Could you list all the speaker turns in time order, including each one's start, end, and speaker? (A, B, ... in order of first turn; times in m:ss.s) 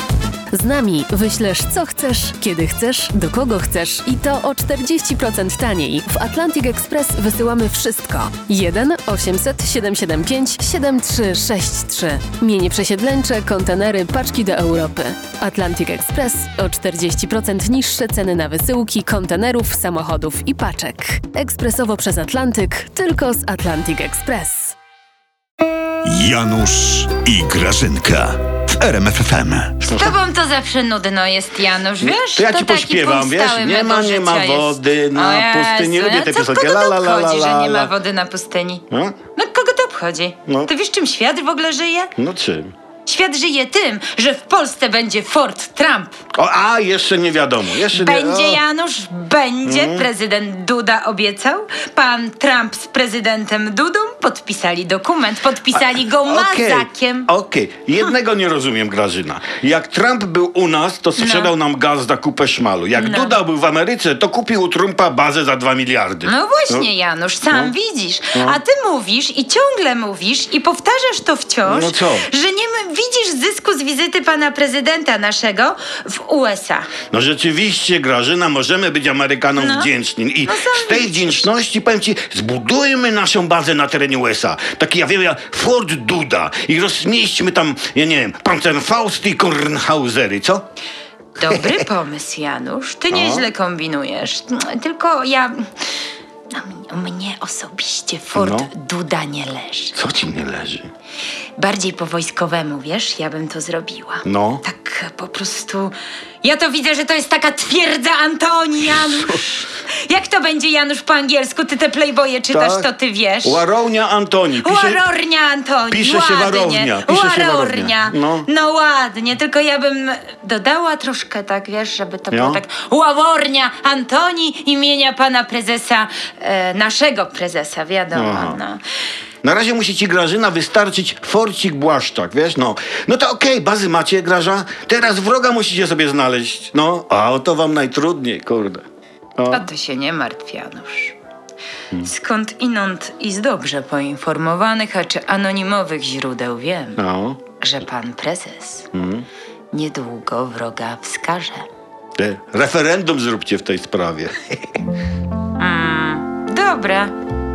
0:00.5-0:24.8 A
0:26.0-0:29.8 B
0:29.8-0:30.2 C
0:29.9-0:42.1 D
0:32.0-0:37.9 C
0:38.9-0:39.2 C
0:42.2-0:42.7 C
0:43.1-0:46.2 D
0:46.3-0:48.6 C
0:47.8-0:57.3 D
0:49.6-0:50.1 C
0:55.7-1:06.9 C
1:01.2-1:01.5 D
1:03.0-1:03.4 D
1:06.2-1:16.9 D
1:08.3-1:08.6 C
1:11.7-1:12.3 C
1:17.1-1:30.6 C
1:19.6-1:19.9 D
1:20.4-1:21.5 D
1:31.4-1:35.7 D
1:31.5-1:31.7 C
1:33.1-1:33.5 C
1:36.5-1:40.0 D
1:38.4-1:38.7 C
1:40.0-1:40.9 C
1:41.6-1:53.6 D
1:44.2-1:44.6 C
1:48.9-1:49.4 C
1:52.5-1:52.9 C
1:53.4-1:55.0 C
1:54.6-2:08.8 D
1:55.9-1:58.5 C
2:02.3-2:02.6 C
2:08.1-2:08.6 C
2:09.4-2:18.9 C
2:19.4-2:19.7 C
2:19.5-2:21.2 D
2:22.0-2:27.0 D
2:27.0-2:27.4 C
2:27.6-2:28.9 D
2:28.9-2:29.3 C
2:29.7-2:31.7 D
2:32.2-2:34.8 C
2:35.6-2:37.1 D